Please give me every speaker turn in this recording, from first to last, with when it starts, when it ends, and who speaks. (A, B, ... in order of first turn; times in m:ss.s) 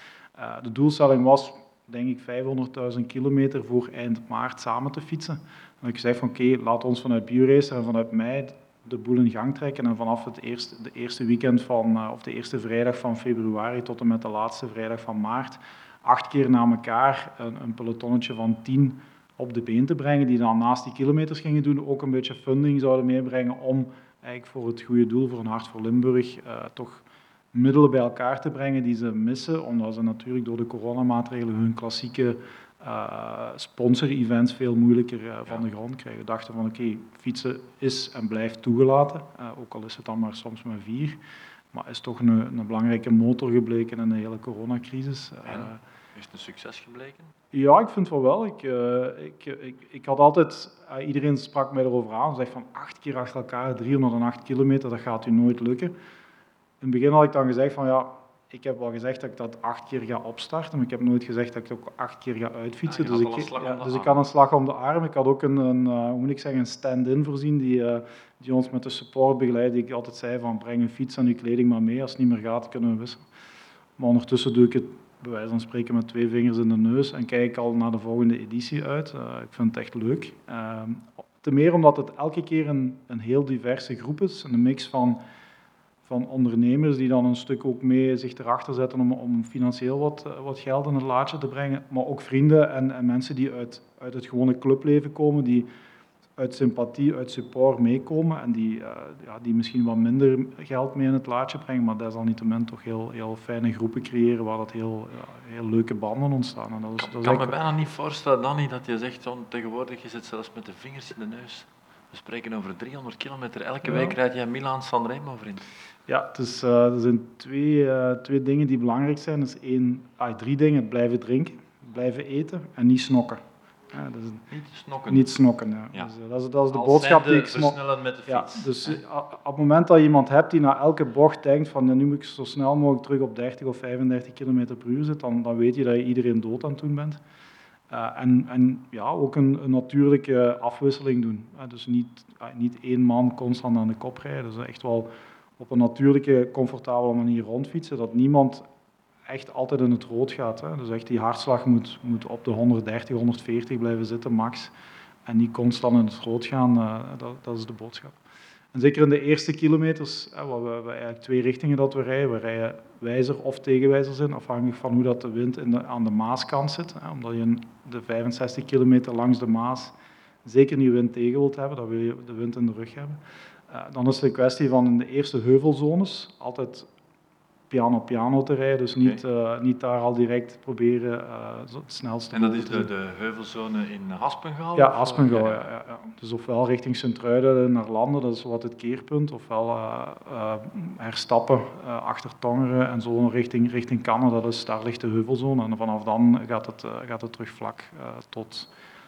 0:00.4-0:45.8 A
0:45.5-0:47.3 B
0:47.5-0:56.0 A
0:56.8-1:13.2 A
1:02.8-1:04.2 B
1:14.0-1:25.2 A
1:26.0-1:35.7 A
1:36.4-1:47.6 A
1:47.0-1:55.7 B
1:53.8-1:54.2 A
1:56.1-2:04.5 A
2:04.5-2:05.3 B
2:05.1-2:17.2 A
2:06.7-2:09.0 B
2:17.9-2:28.7 A
2:29.3-2:34.7 A
2:35.3-2:38.2 A
2:38.7-2:56.9 A
2:57.7-3:02.9 A
3:02.3-3:05.7 B
3:04.8-3:18.7 A